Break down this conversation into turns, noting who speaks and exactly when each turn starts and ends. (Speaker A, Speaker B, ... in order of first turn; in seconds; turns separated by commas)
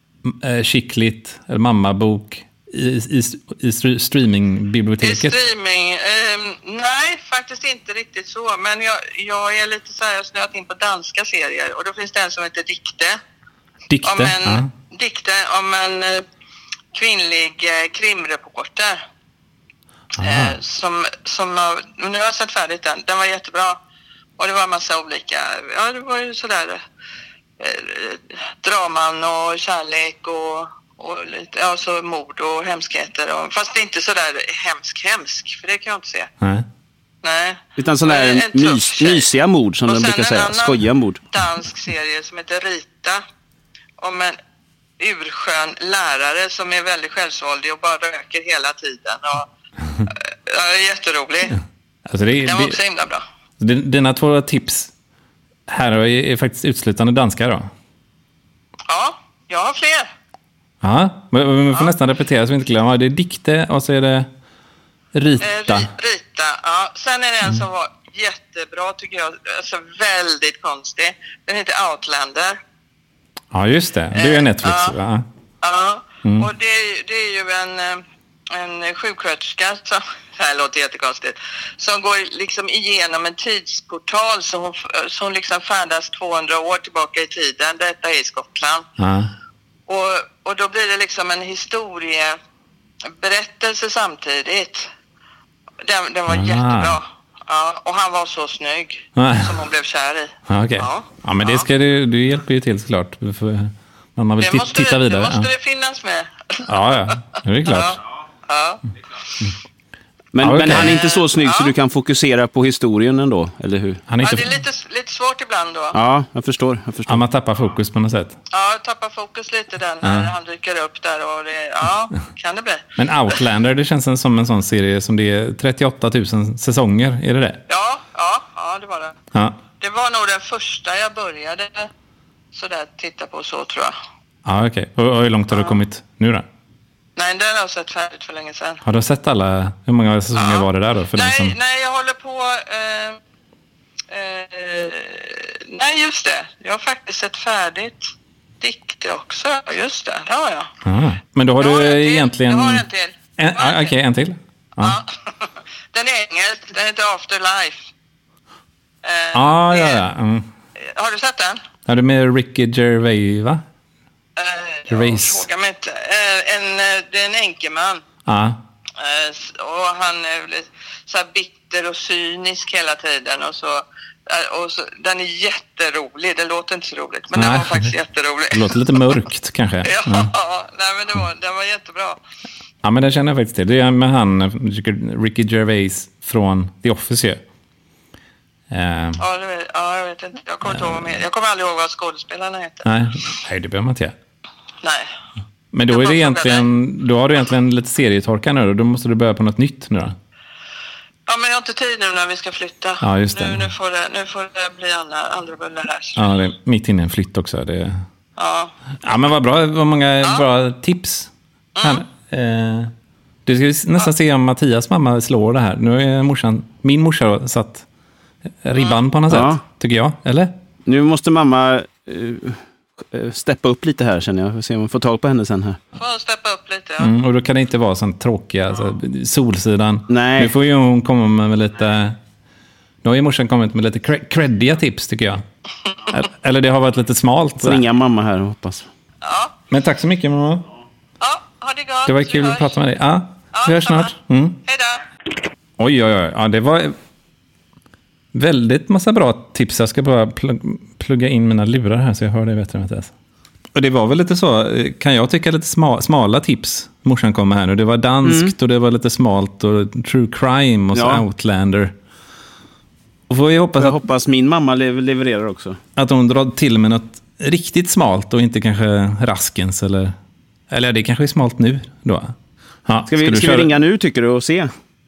Speaker A: 0.2-5.4, Speaker B: 5.0-13.2, Speaker A: 13.9-14.7, Speaker B: 14.0-16.2, Speaker B: 16.9-19.0, Speaker A: 20.2-20.6, Speaker B: 20.2-23.8, Speaker B: 24.4-26.8, Speaker B: 27.6-36.3, Speaker A: 36.4-36.7, Speaker B: 37.2-39.3, Speaker C: 37.8-41.2, Speaker B: 39.9-43.2, Speaker B: 44.0-44.4, Speaker B: 45.0-49.5, Speaker B: 50.0-51.6, Speaker A: 52.1-52.8, Speaker B: 52.5-53.2, Speaker A: 53.6-54.9, Speaker A: 55.7-57.7, Speaker B: 58.9-60.1, Speaker A: 60.8-64.3, Speaker A: 65.1-65.9, Speaker B: 65.4-72.6, Speaker A: 73.5-75.3, Speaker B: 74.1-75.0, Speaker B: 75.6-88.9, Speaker A: 76.2-76.5, Speaker A: 89.0-89.3, Speaker B: 89.9-92.4, Speaker B: 93.1-94.9, Speaker B: 95.8-101.7, Speaker A: 96.3-97.0, Speaker A: 99.2-99.6, Speaker A: 100.5-105.5, Speaker B: 104.4-107.1, Speaker A: 106.7-108.0, Speaker B: 107.7-108.8, Speaker C: 110.3-114.0, Speaker A: 110.4-110.9, Speaker B: 110.7-111.7, Speaker A: 114.1-114.6, Speaker B: 114.2-116.0, Speaker C: 115.9-117.2, Speaker A: 117.1-118.4, Speaker B: 118.5-122.8, Speaker A: 120.0-120.3, Speaker A: 123.0-127.6, Speaker B: 127.7-129.2, Speaker A: 129.3-129.6, Speaker B: 129.8-131.9, Speaker B: 132.5-133.9, Speaker A: 134.4-136.4, Speaker B: 135.5-135.8, Speaker B: 137.2-138.8, Speaker A: 138.8-141.6, Speaker B: 140.4-143.2, Speaker B: 144.1-148.1, Speaker B: 148.6-150.7, Speaker A: 150.8-152.8, Speaker B: 151.6-153.9, Speaker A: 153.4-155.0, Speaker B: 154.8-157.9, Speaker B: 159.0-160.0, Speaker A: 159.3-160.5, Speaker B: 160.8-161.6, Speaker A: 161.9-163.6, Speaker B: 164.4-168.0, Speaker A: 164.9-165.5, Speaker A: 168.3-168.6, Speaker B: 169.0-179.1, Speaker A: 177.3-177.9, Speaker A: 178.5-180.3, Speaker B: 179.8-182.2, Speaker A: 182.8-187.4, Speaker A: 188.7-189.2, Speaker B: 189.2-192.9, Speaker A: 190.7-191.2, Speaker A: 192.8-194.2, Speaker B: 194.8-195.1, Speaker A: 195.7-200.2, Speaker B: 195.9-196.7, Speaker B: 201.3-206.2, Speaker A: 203.0-203.7, Speaker A: 206.2-208.0, Speaker B: 208.4-208.7, Speaker A: 209.0-211.3, Speaker B: 211.8-212.0, Speaker A: 211.8-212.9, Speaker A: 213.5-217.9, Speaker A: 218.6-220.5, Speaker C: 219.3-219.6, Speaker C: 220.9-225.8, Speaker B: 226.0-227.1, Speaker A: 227.0-232.2, Speaker C: 230.1-230.5, Speaker A: 233.0-235.4, Speaker A: 236.1-237.8, Speaker C: 237.6-238.9, Speaker B: 239.2-239.6, Speaker A: 239.7-240.7, Speaker B: 241.2-242.7, Speaker A: 242.1-244.6, Speaker B: 243.5-244.1, Speaker B: 244.7-245.0, Speaker A: 245.8-246.9, Speaker A: 248.3-253.1, Speaker A: 253.7-261.9, Speaker C: 258.2-258.5, Speaker C: 260.9-261.2, Speaker A: 263.3-264.0, Speaker C: 263.8-265.8, Speaker A: 266.0-270.1, Speaker A: 270.7-272.3, Speaker A: 272.9-273.7, Speaker C: 273.1-274.7